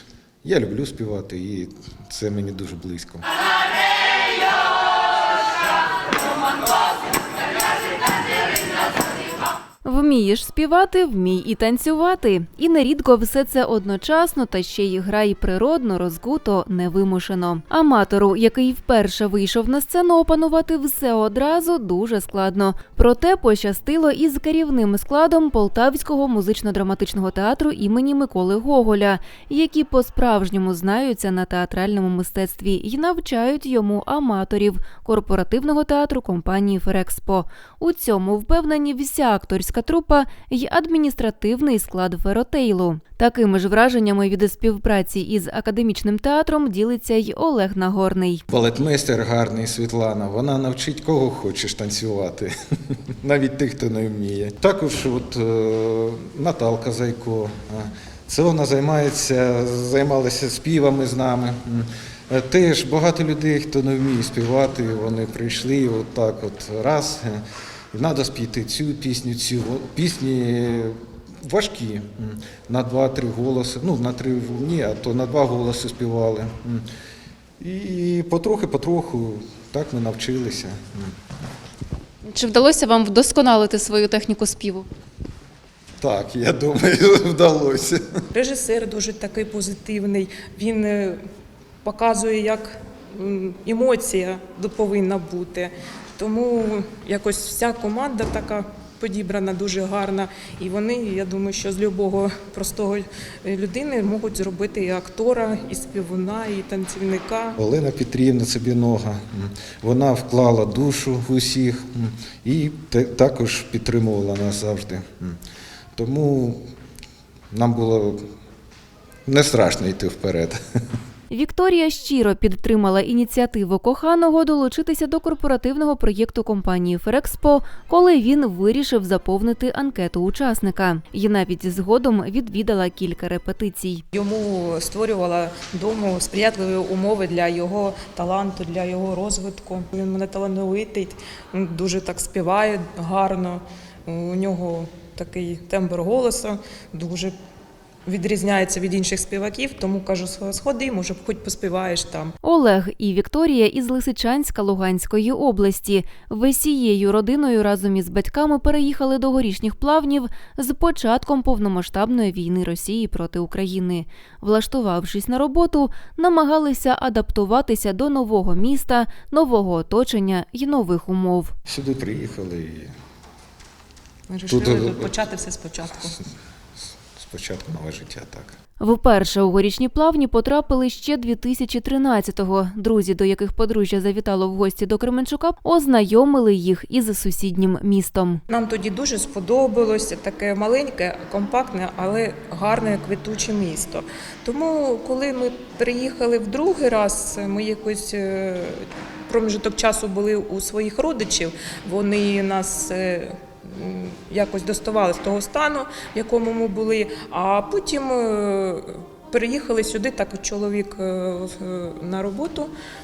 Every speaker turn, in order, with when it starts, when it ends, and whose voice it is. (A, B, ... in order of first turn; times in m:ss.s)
0:00.4-0:03.2 A
0:09.8-0:48.4 B
0:48.5-1:16.8 A
1:17.6-1:21.1 A
1:22.3-1:24.8 C
1:26.0-1:28.0 A
1:28.3-1:31.2 D
1:31.8-1:47.6 D
1:47.6-1:55.4 A
1:55.9-1:56.6 A
1:57.5-1:58.3 A
1:59.2-2:00.6 A
2:01.3-2:14.0 B
2:14.1-2:27.3 D
2:28.0-2:32.3 D
2:32.4-2:51.5 B
2:51.7-2:52.9 A
2:54.3-2:56.2 D
2:54.5-2:55.1 A
2:57.2-2:58.5 A
2:58.8-3:08.4 B
3:08.5-3:32.7 D